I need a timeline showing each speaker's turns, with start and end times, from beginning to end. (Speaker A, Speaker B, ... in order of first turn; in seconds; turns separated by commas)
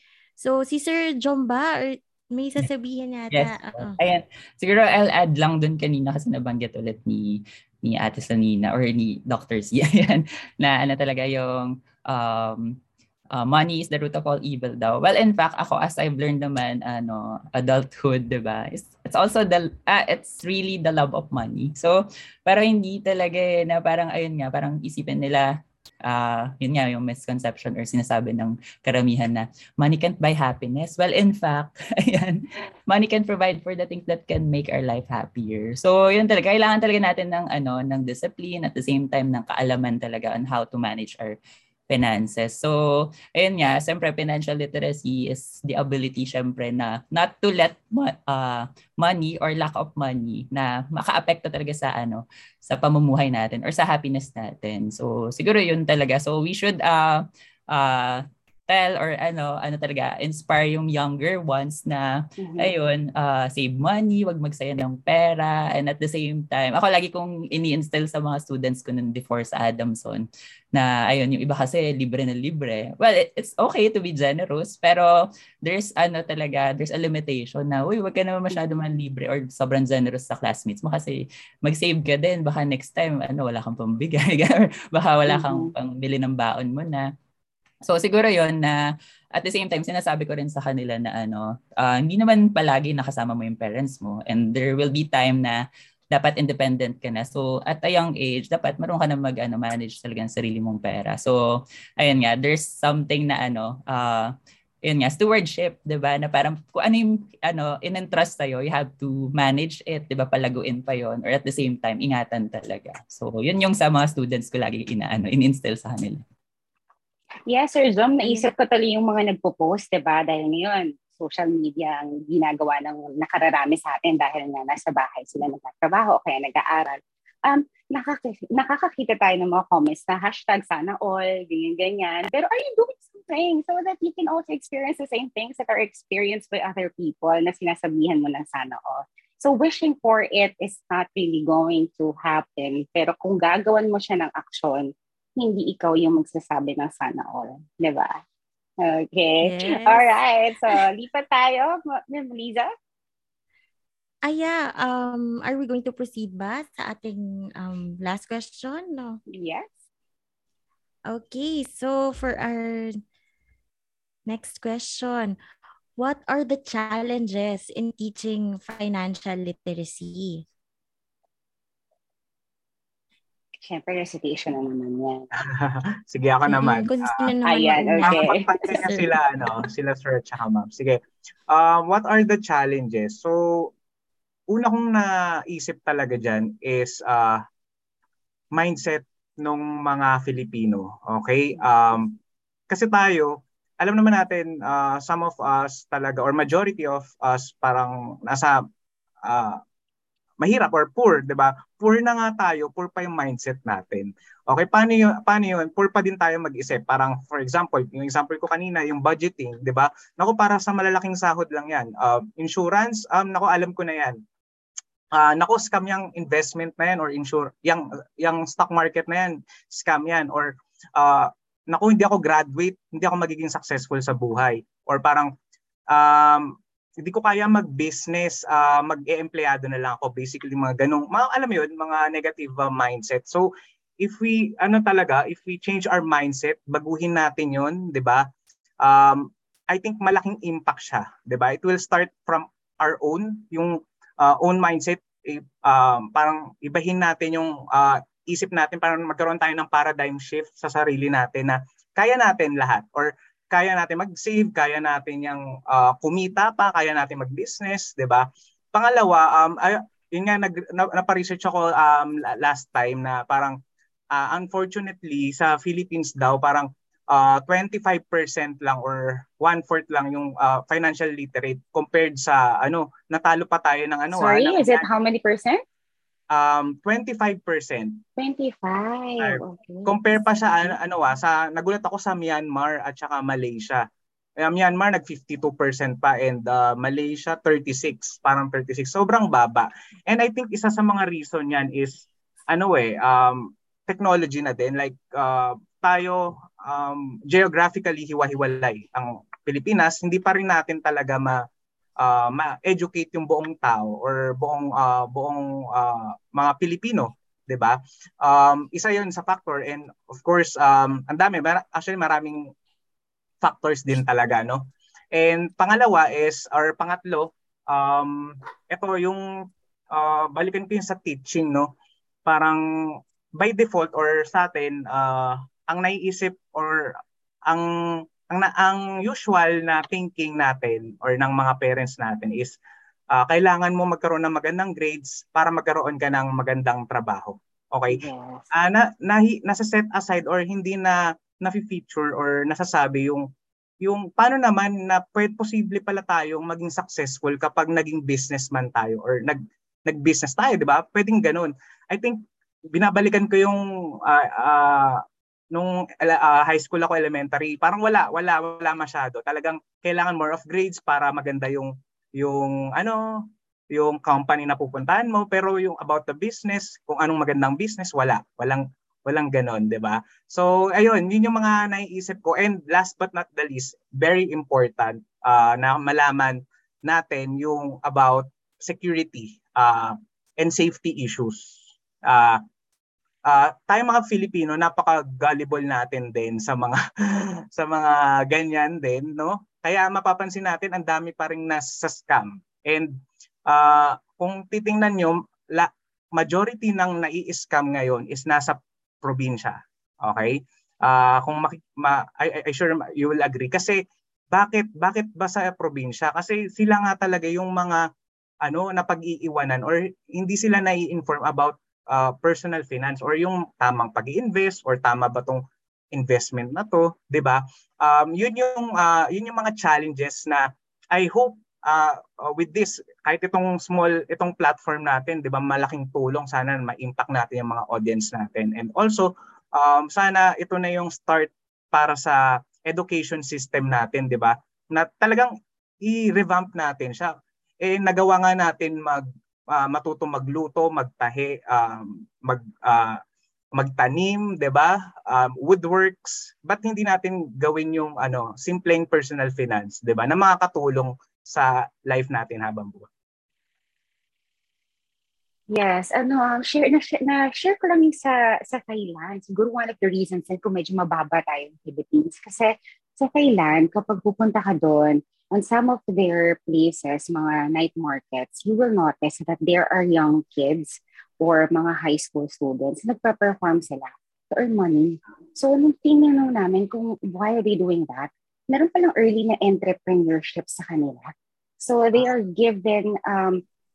Speaker A: 0.4-4.0, Speaker B: 3.3-12.8, Speaker B: 13.3-25.5, Speaker B: 26.1-41.4, Speaker B: 41.9-87.1, Speaker C: 62.4-62.7, Speaker C: 85.3-85.7, Speaker B: 87.8-88.8, Speaker B: 89.3-104.3, Speaker B: 104.8-116.2, Speaker C: 117.5-148.1, Speaker C: 148.8-152.7, Speaker A: 149.4-150.2, Speaker A: 154.2-159.2, Speaker C: 159.3-159.7, Speaker A: 161.1-163.0, Speaker A: 164.3-165.4, Speaker A: 166.0-170.4, Speaker C: 173.6-175.3, Speaker D: 175.4-177.2, Speaker A: 176.5-179.1, Speaker C: 177.4-178.7, Speaker D: 178.0-183.7, Speaker D: 184.5-187.4, Speaker D: 188.5-192.1, Speaker D: 192.7-198.6, Speaker D: 199.2-199.6, Speaker D: 200.4-214.2, Speaker D: 215.1-225.3, Speaker D: 225.9-233.4, Speaker D: 234.0-238.2, Speaker D: 238.8-263.6, Speaker D: 264.1-274.9, Speaker C: 274.1-275.6, Speaker D: 276.3-278.0, Speaker C: 278.2-280.7, Speaker D: 279.2-283.8, Speaker D: 284.4-301.4, Speaker D: 302.0-312.5, Speaker D: 313.4-314.6, Speaker D: 315.1-319.2, Speaker D: 319.9-321.7, Speaker D: 322.2-322.6, Speaker D: 323.4-327.0, Speaker D: 328.3-332.6, Speaker D: 333.1-343.2, Speaker C: 337.9-338.5, Speaker D: 343.8-352.2, Speaker D: 352.7-382.4, Speaker D: 383.2-386.8, Speaker D: 387.6-392.9, Speaker D: 393.5-403.8, Speaker D: 404.3-407.8, Speaker D: 408.4-415.4, Speaker D: 415.9-437.1, Speaker D: 437.6-443.0, Speaker D: 443.6-452.9, Speaker C: 455.5-483.4